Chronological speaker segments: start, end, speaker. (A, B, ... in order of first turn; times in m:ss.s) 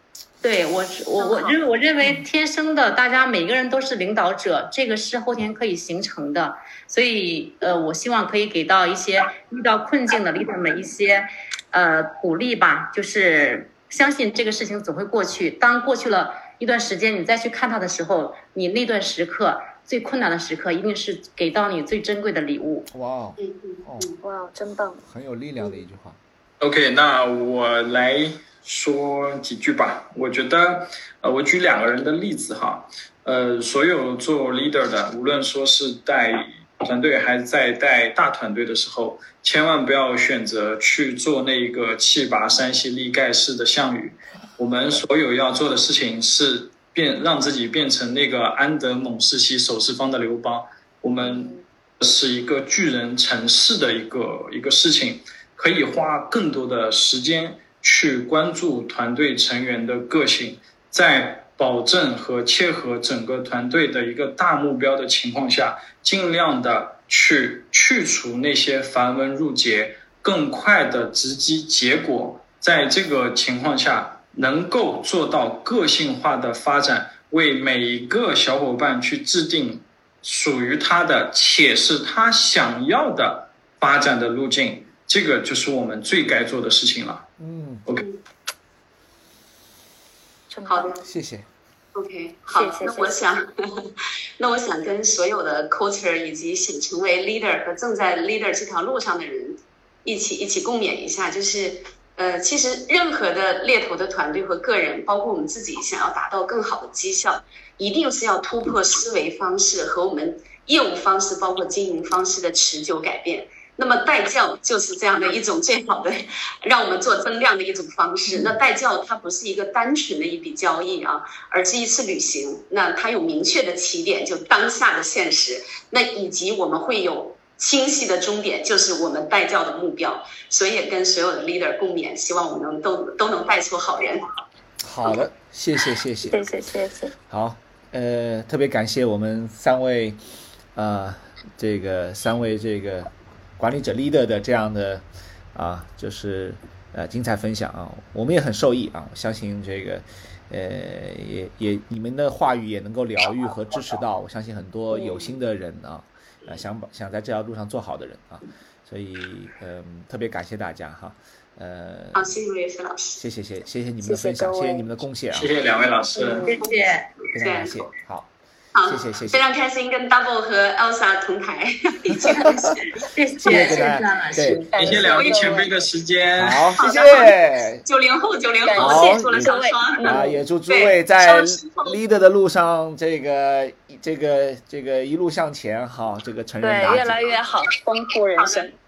0:00.4-0:22.9 A
0:01.2-0:01.6 B
0:22.9-0:24.2 C
0:23.4-0:24.2 B
0:24.2-0:25.0 D
0:25.0-0:26.2 C
0:26.6-1:27.3 E
1:27.4-1:27.8 C
1:30.5-1:31.0 D
1:30.7-1:31.0 B
1:31.0-1:31.5 C
1:31.9-2:14.2 B
1:32.5-1:33.2 D
2:14.8-2:16.4 C
2:16.3-2:17.1 D
2:17.3-2:20.2 C
2:20.7-2:25.0 C
2:25.5-2:42.3 C
2:34.9-2:35.3 D
2:42.1-2:43.2 B
2:43.2-2:45.5 C
2:44.0-2:44.9 D
2:45.3-2:46.5 E
2:46.3-2:46.7 B
2:46.4-2:47.1 A
2:47.3-2:48.3 C
2:47.4-2:47.8 B
2:48.7-2:54.0 B
2:48.8-2:49.4 C
2:52.3-2:52.6 C
2:53.1-2:54.8 A
2:53.4-2:54.6 C
2:54.4-2:55.7 D
2:54.8-2:56.8 E
2:54.8-2:55.7 B
2:56.4-2:57.8 C
2:56.8-3:02.0 B
2:58.6-3:00.3 D
2:58.8-2:59.5 C
3:00.0-3:07.4 C
3:06.6-3:08.7 D
3:08.4-3:08.7 B